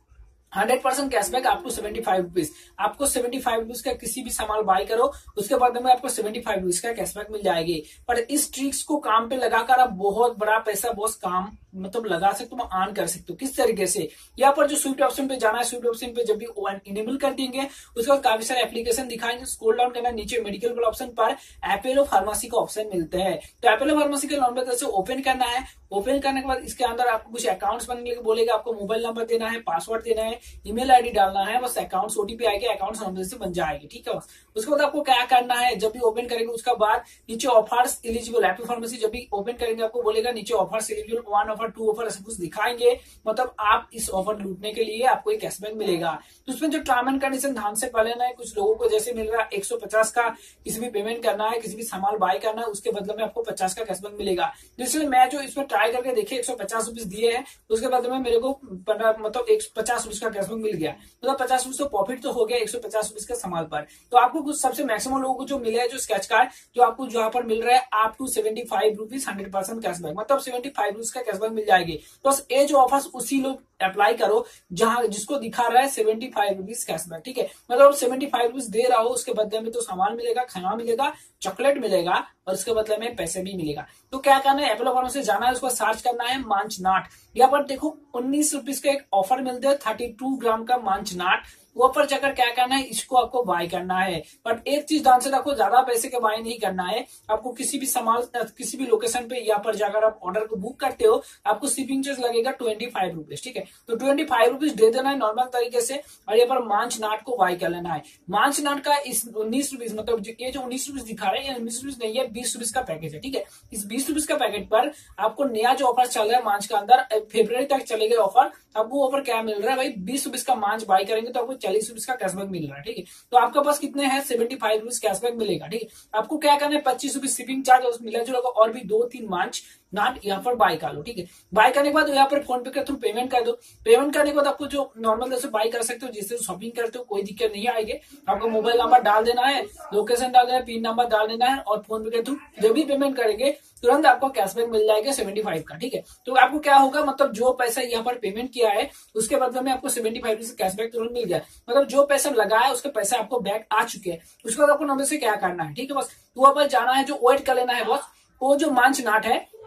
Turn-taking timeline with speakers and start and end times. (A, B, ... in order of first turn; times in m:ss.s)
0:00.5-2:39.4 A